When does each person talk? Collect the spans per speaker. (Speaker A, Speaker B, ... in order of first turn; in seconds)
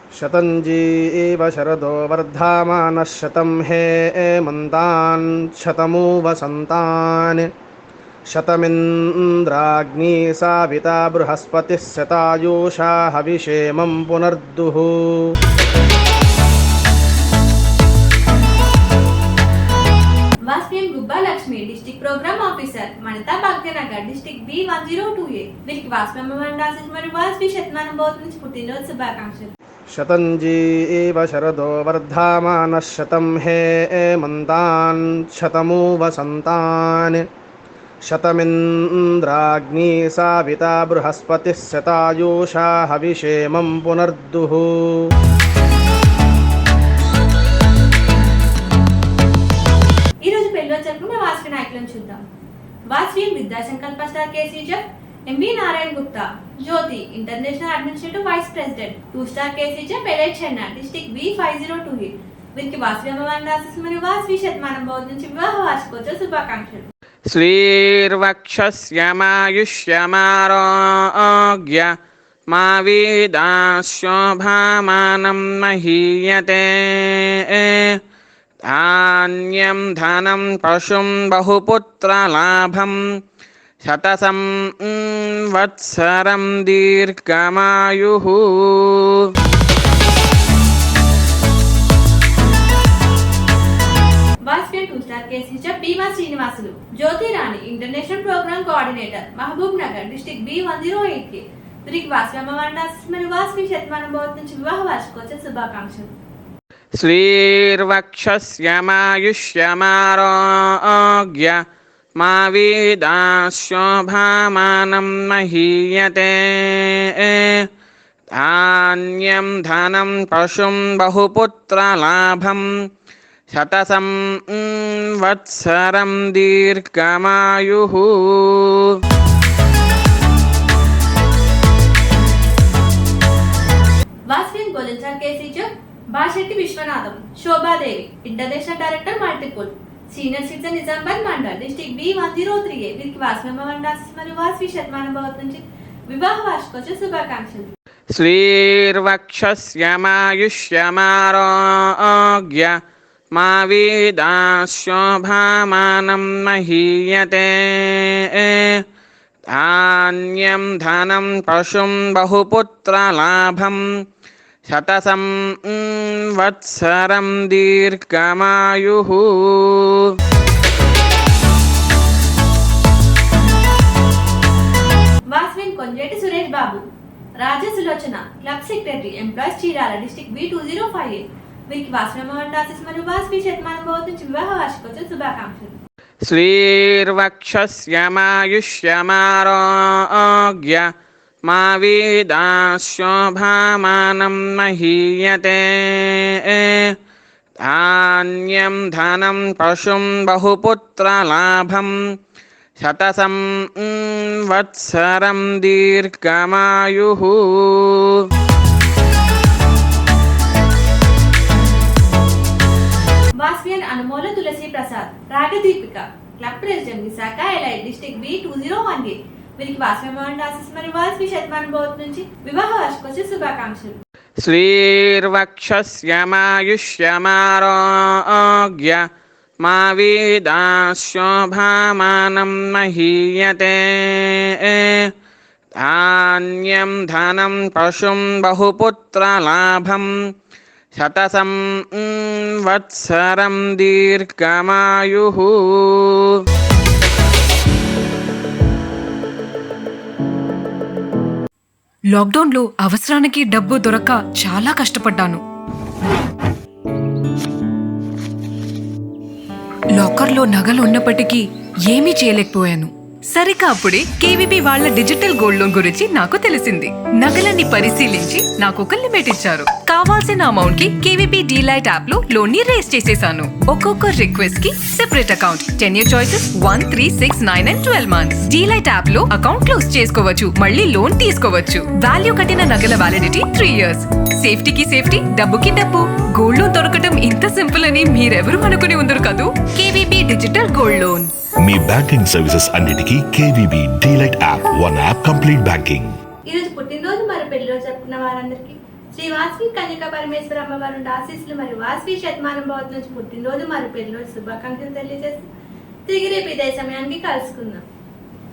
Speaker A: 0.2-7.5, 8.3-15.2, 29.9-37.2, 38.1-45.0
Speaker B: 20.5-29.5, 50.2-52.2, 52.9-66.9, 94.5-106.1, 134.3-147.7, 175.3-176.8, 177.4-185.8, 213.4-224.0, 296.5-305.5, 306.1-307.8
Speaker C: 67.3-71.9, 72.5-78.0, 78.7-83.0, 83.8-89.3, 107.0-111.6, 112.2-117.7, 118.4-122.7, 123.5-128.9, 148.2-152.8, 153.3-158.8, 159.5-163.8, 164.7-170.2, 186.3-190.9, 191.4-196.9, 197.7-201.9, 202.8-208.3, 224.4-229.0, 229.6-235.1, 235.8-240.1, 240.9-246.4
Speaker D: 252.1-255.4, 259.9-291.3
Speaker E: 291.6-296.2